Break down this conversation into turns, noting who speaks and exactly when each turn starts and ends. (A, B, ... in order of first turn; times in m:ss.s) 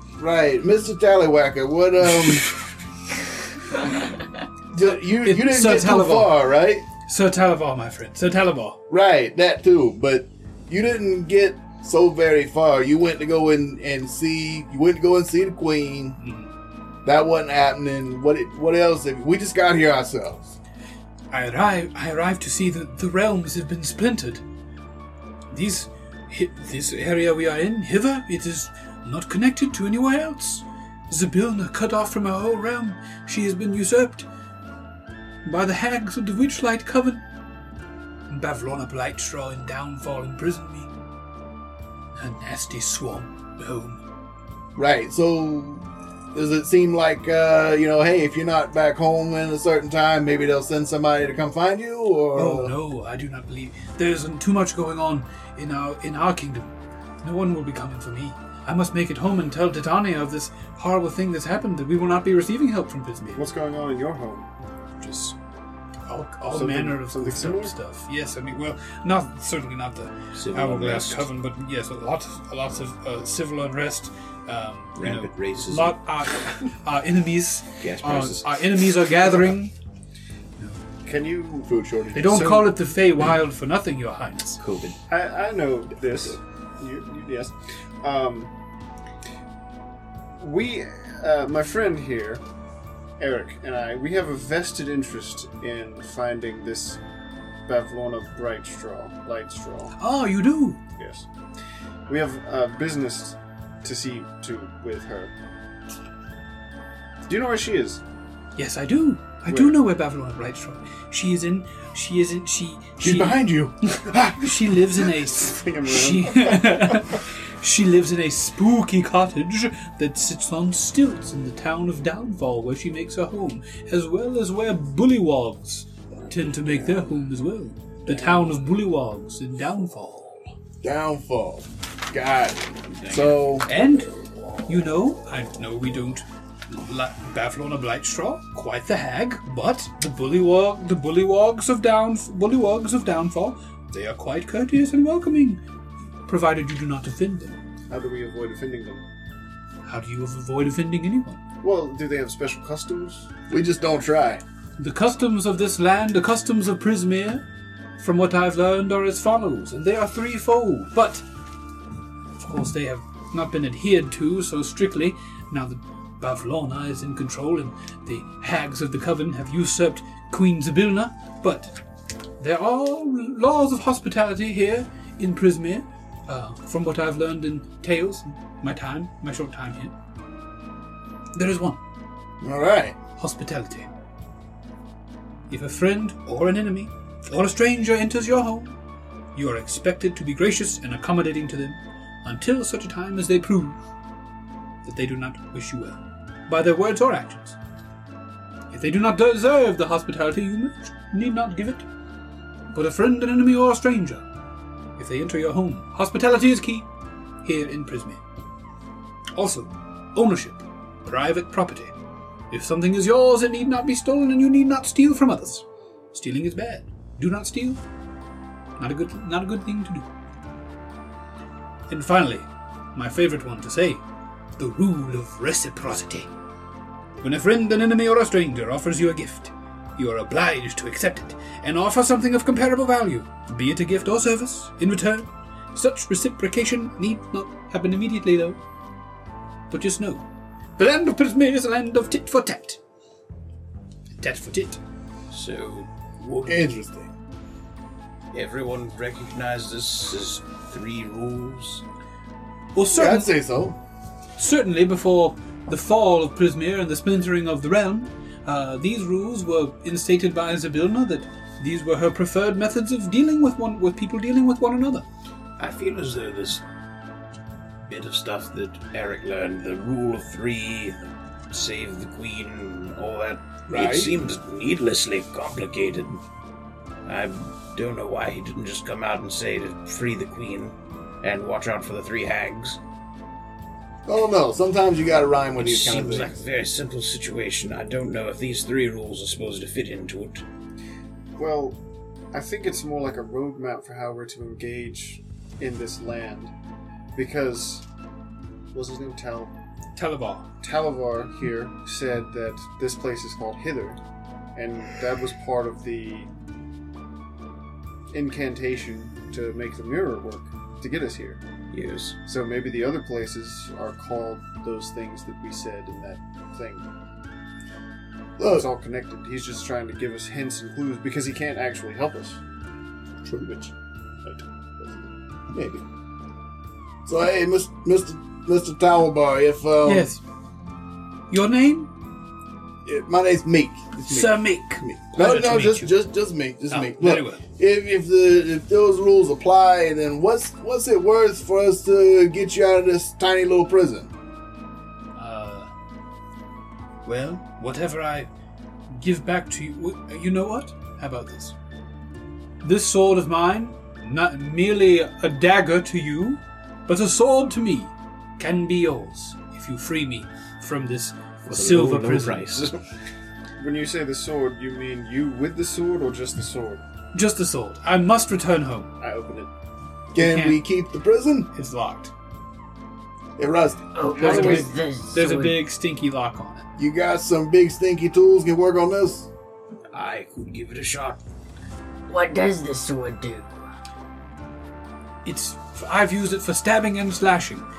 0:00.2-0:02.5 A
0:04.7-0:06.9 A
0:04.8-0:06.4 B
0:07.0-0:08.8 B
0:08.9-0:16.2 A
0:16.2-0:16.5 B
0:17.0-0:20.6 A
0:21.3-0:24.4 B
0:25.5-0:34.3 B
0:35.4-0:37.2 B
0:38.3-0:40.9 B
0:42.2-0:44.0 B
0:44.8-0:52.8 A
0:52.4-0:56.7 B
0:57.2-1:03.5 B
1:03.4-1:04.5 C
1:05.0-1:05.3 B
1:06.1-1:19.7 B
1:06.5-1:07.8 C
1:10.4-1:11.3 D
1:15.0-1:16.0 D
1:17.8-1:18.9 D
1:21.0-1:21.7 C
1:21.6-1:22.7 A
1:22.1-1:24.6 B
1:22.4-1:22.6 C
1:24.6-1:25.0 D
1:25.1-1:28.5 C
1:30.4-1:32.4 C
1:33.2-1:37.0 C
1:37.7-1:40.0 C
1:40.0-1:40.8 B
1:41.0-1:41.3 C
1:42.1-1:45.3 C
1:47.3-1:48.0 C
1:48.6-2:10.4 B
1:49.5-1:49.8 C
1:53.0-1:54.5 A
1:55.3-1:57.0 C
2:10.8-2:13.7 A
2:12.9-2:13.4 D
2:13.7-2:14.1 B
2:14.7-2:25.6 B
2:26.3-2:27.6 B
2:27.9-2:29.0 C
2:29.9-2:31.4 B
2:31.6-2:33.3 C
2:33.5-2:34.4 A
2:34.8-2:37.4 B
2:38.0-2:41.2 B
2:42.4-2:51.8 B
2:52.4-2:59.9 B
3:01.3-3:01.8 B
3:02.4-3:03.0 A
3:03.2-3:03.9 B
3:05.5-3:08.8 B
3:09.4-3:13.8 B
3:14.8-3:17.6 B
3:18.7-3:21.9 B
3:22.7-3:24.2 B
3:25.0-3:26.9 B
3:27.4-3:28.2 B
3:29.4-3:32.0 B
3:32.5-3:37.8 B
3:38.8-3:40.1 B
3:41.9-3:44.0 B
3:44.6-3:46.3 B
3:47.2-3:58.6 B
3:59.7-4:02.8 B
4:04.1-4:04.8 B
4:05.3-4:06.7 D
4:06.5-4:07.1 A
4:08.3-4:11.8 D
4:12.8-4:13.4 B
4:12.9-4:13.8 A
4:14.4-4:25.0 B
4:25.6-4:26.6 D
4:27.9-4:36.2 D
4:33.7-4:34.2 A
4:37.1-4:42.8 D
4:44.1-4:46.4 A
4:45.6-4:50.4 D
4:51.4-4:51.8 C
4:52.3-4:56.5 C
4:57.2-4:57.8 C
4:58.7-4:59.5 C
5:00.0-5:00.5 B
5:00.6-5:04.0 C
5:04.6-5:06.3 C
5:08.1-5:11.4 C
5:11.7-5:12.2 D
5:12.3-5:16.9 C
5:18.4-5:18.7 A
5:18.5-5:22.4 C
5:23.2-5:23.7 A
5:24.2-5:25.1 C
5:25.5-5:25.8 A
5:27.0-5:30.1 A
5:29.8-5:30.2 B
5:31.3-5:31.9 B
5:32.8-5:44.1 A
5:34.0-5:36.0 B
5:36.7-5:37.4 B
5:45.2-5:45.7 B
5:47.0-5:48.3 B
5:48.9-5:51.5 B
5:52.6-6:02.5 B
6:01.5-6:02.8 D
6:03.6-6:06.8 C
6:07.1-6:08.9 B
6:09.0-6:09.5 C
6:10.1-6:11.5 A
6:10.2-6:10.6 B
6:11.5-6:12.1 B
6:13.4-6:14.7 A
6:14.0-6:15.6 E
6:14.2-6:16.7 B
6:16.8-6:19.3 A
6:19.9-6:21.2 D
6:22.1-6:23.6 E
6:25.2-6:27.7 B